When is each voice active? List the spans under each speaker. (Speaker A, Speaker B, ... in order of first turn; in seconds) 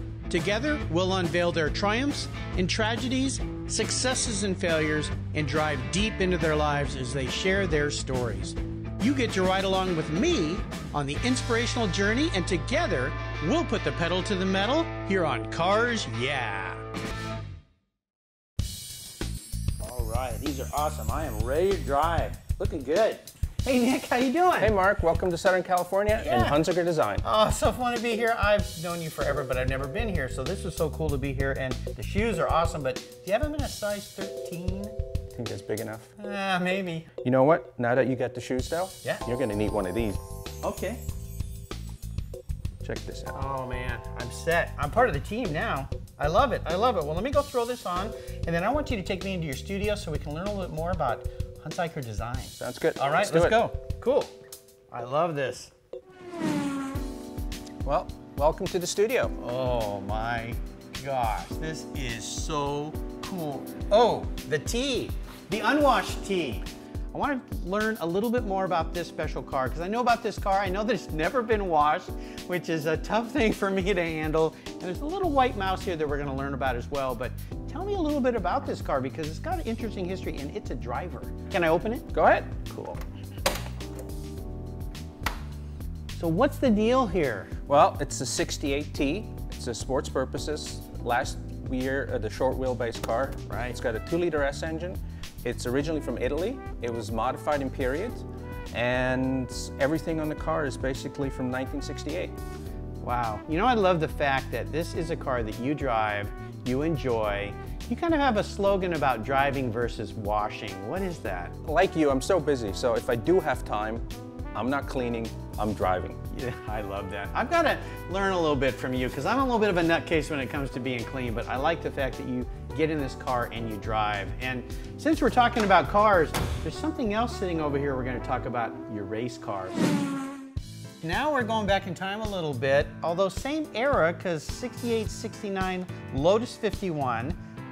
Speaker A: 0.3-16.8, 19.8-24.7, 26.2-26.6, 27.2-35.0, 36.2-37.1, 40.6-41.0, 43.3-54.3, 54.9-55.7, 59.4-82.1, 82.7-83.0, 86.2-87.5, 93.5-93.8, 103.0-111.6, 116.3-129.9, 131.0-137.4
Speaker B: 24.6-27.2, 35.3-36.1, 37.2-40.2, 42.8-43.4, 52.6-53.6, 57.9-59.3, 82.1-82.6, 87.7-102.4, 111.7-116.2